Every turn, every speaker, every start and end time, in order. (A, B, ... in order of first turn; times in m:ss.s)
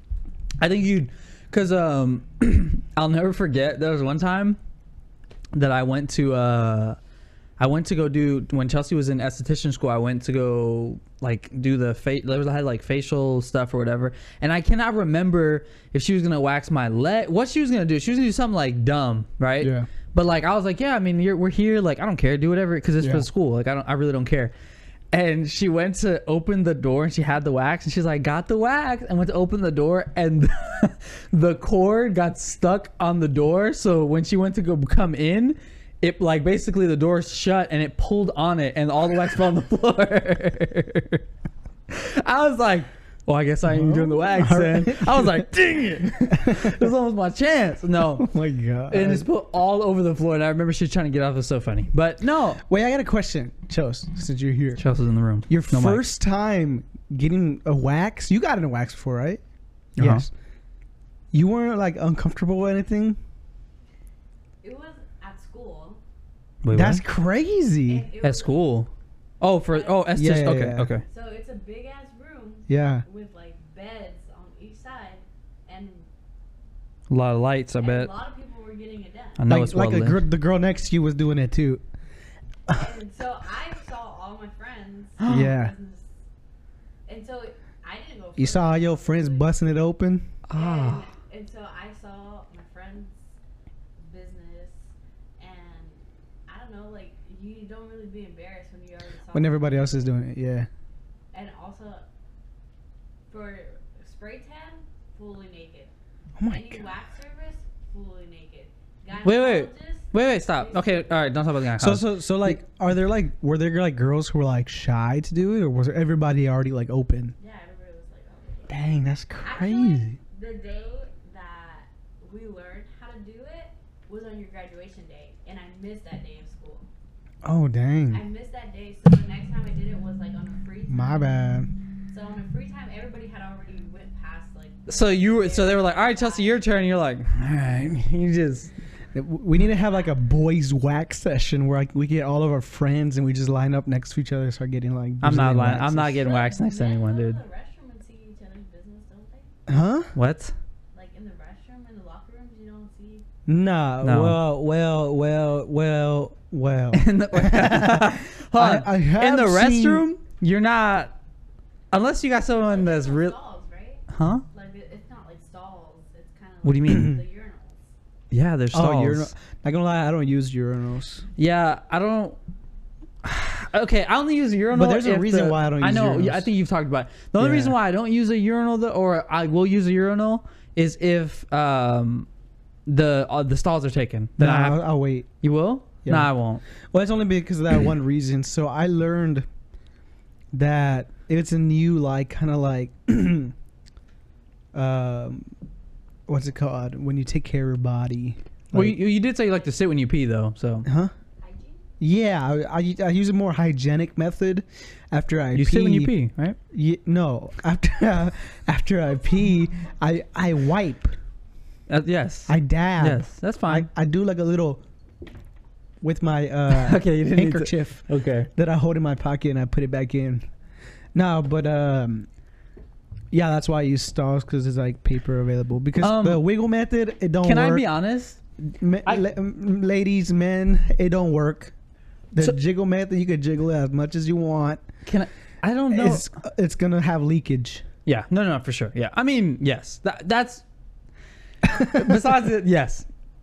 0:00.6-0:04.6 A
0:05.5-0:07.0 A
0:07.6-0:24.5 A
0:19.6-0:19.9 B
0:23.0-0:23.2 B
0:25.1-0:41.2 A
0:41.9-0:48.3 A
0:43.7-0:45.5 B
0:46.3-0:46.8 B
0:48.1-0:49.3 B
0:48.9-0:52.6 A
0:52.6-0:54.8 B
0:54.8-0:56.0 A
0:55.5-0:59.4 B
1:00.0-1:00.3 B
1:00.0-1:00.2 A
1:01.3-1:03.2 B
1:04.6-1:06.0 C
1:06.6-1:07.0 A
1:06.7-1:08.1 B
1:07.9-1:08.7 C
1:08.2-1:08.9 A
1:09.4-1:11.0 A
1:09.7-1:10.1 C
1:10.1-1:10.9 B
1:11.0-1:16.1 C
1:12.7-1:13.0 B
1:17.1-1:18.1 A
1:17.8-1:19.5 C
1:19.4-1:20.2 A
1:19.5-1:21.8 B
1:22.7-1:26.1 C
1:25.2-1:25.5 A
1:25.2-1:25.7 B
1:27.1-1:29.5 C
1:28.4-1:30.3 B
1:30.5-1:31.1 A
1:30.5-1:33.3 C
1:34.0-1:40.1 C
1:39.3-1:40.7 B
1:41.3-1:42.1 C
1:43.3-1:45.9 C
1:46.4-1:46.8 B
1:46.4-1:51.4 C
1:49.2-1:52.6 A
1:51.8-1:57.3 B
1:57.4-2:06.9 C
1:58.7-2:00.2 B
2:07.4-2:08.2 B
2:08.1-2:11.4 C
2:10.9-2:11.7 B
2:12.1-2:16.6 C
2:14.9-2:18.7 A
2:19.1-2:26.2 B
2:25.2-2:27.4 A
2:26.2-2:29.5 C
2:29.7-2:30.1 B
2:30.1-2:30.5 A
2:30.9-2:33.2 C
2:33.4-2:40.1 B
2:34.0-2:34.4 A
2:36.9-2:41.1 A
2:41.9-2:43.4 A
2:42.6-2:47.9 C
2:44.1-2:44.4 A
2:46.6-2:47.2 A
2:46.9-2:47.2 B
2:48.3-2:49.3 A
2:48.7-2:51.2 B
2:51.4-2:52.4 A
2:53.2-3:02.3 A
2:54.7-2:56.5 B
2:57.4-2:57.8 B
3:02.8-3:04.8 A
3:04.4-3:05.3 B
3:05.4-3:06.6 A
3:06.0-3:06.3 B
3:06.9-3:09.4 B
3:10.5-3:13.5 B
3:14.7-3:15.5 B
3:16.3-3:19.0 B
3:18.7-3:20.8 A
3:20.8-3:21.1 B
3:21.4-3:21.8 C
3:22.0-3:26.1 B
3:25.5-3:26.6 A
3:26.7-3:31.1 B
3:31.9-3:33.9 A
3:32.5-3:34.8 B
3:36.0-3:40.4 B
3:36.7-3:38.5 A
3:41.1-3:42.3 B
3:43.3-3:47.8 B
3:46.0-3:46.4 A
3:47.4-3:48.4 A
3:48.8-3:51.7 B
3:52.3-3:54.8 B
3:55.0-3:56.3 A
3:55.9-3:57.8 B
3:58.0-4:00.6 A
4:01.7-4:03.0 A
4:01.8-4:02.2 B